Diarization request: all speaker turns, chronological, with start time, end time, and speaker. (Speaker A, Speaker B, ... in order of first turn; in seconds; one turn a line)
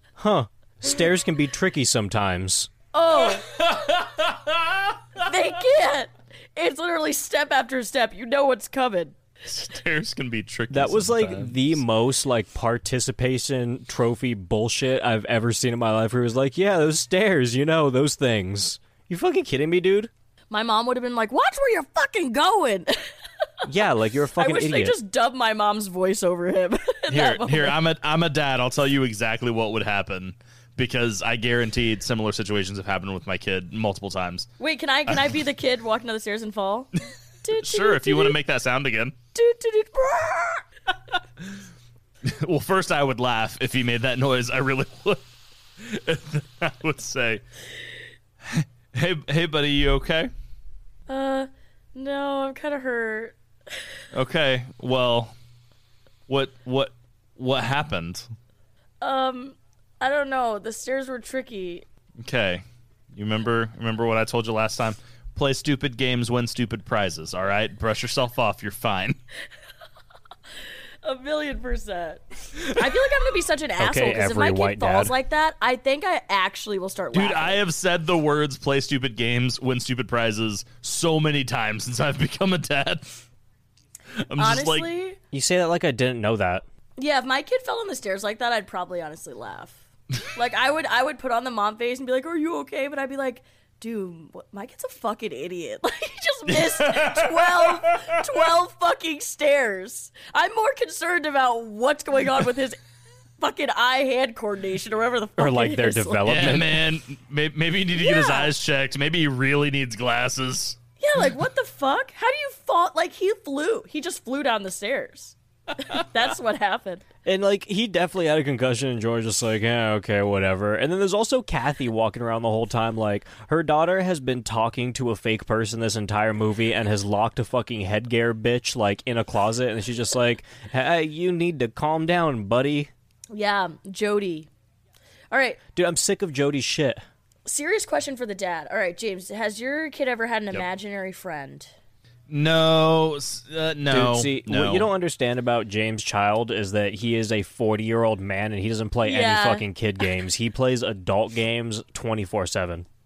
Speaker A: 0.1-2.7
Speaker B: 2.9-3.6
Speaker C: 3.2-5.0
Speaker B: 5.2-9.1
Speaker C: 9.4-11.8
Speaker A: 10.7-20.1
Speaker B: 20.5-23.0
Speaker A: 23.6-25.0
Speaker B: 24.4-27.8
Speaker C: 27.1-34.5
Speaker B: 34.6-36.9
Speaker B: 37.4-38.4
Speaker C: 37.6-39.1
Speaker B: 39.3-40.6
Speaker C: 42.2-45.2
Speaker C: 45.8-47.4
Speaker C: 48.4-50.3
Speaker B: 51.1-53.3
Speaker C: 54.1-55.3
Speaker C: 56.3-58.2
Speaker B: 59.0-61.8
Speaker C: 62.2-69.2
Speaker B: 71.0-77.6
Speaker A: 73.8-75.1
Speaker C: 77.1-83.2
Speaker C: 84.2-84.9
Speaker B: 84.4-85.2
Speaker A: 85.3-86.6
Speaker B: 87.0-102.8
Speaker C: 96.5-98.2
Speaker B: 103.4-106.5
Speaker A: 105.4-106.8
Speaker C: 106.2-110.8
Speaker B: 108.0-108.5
Speaker B: 111.0-117.0
Speaker A: 117.2-132.9
Speaker B: 133.3-134.5
Speaker B: 135.3-135.6
Speaker A: 135.7-137.0
Speaker B: 137.4-141.7
Speaker C: 142.3-144.9
Speaker A: 143.9-152.8
Speaker B: 149.0-149.7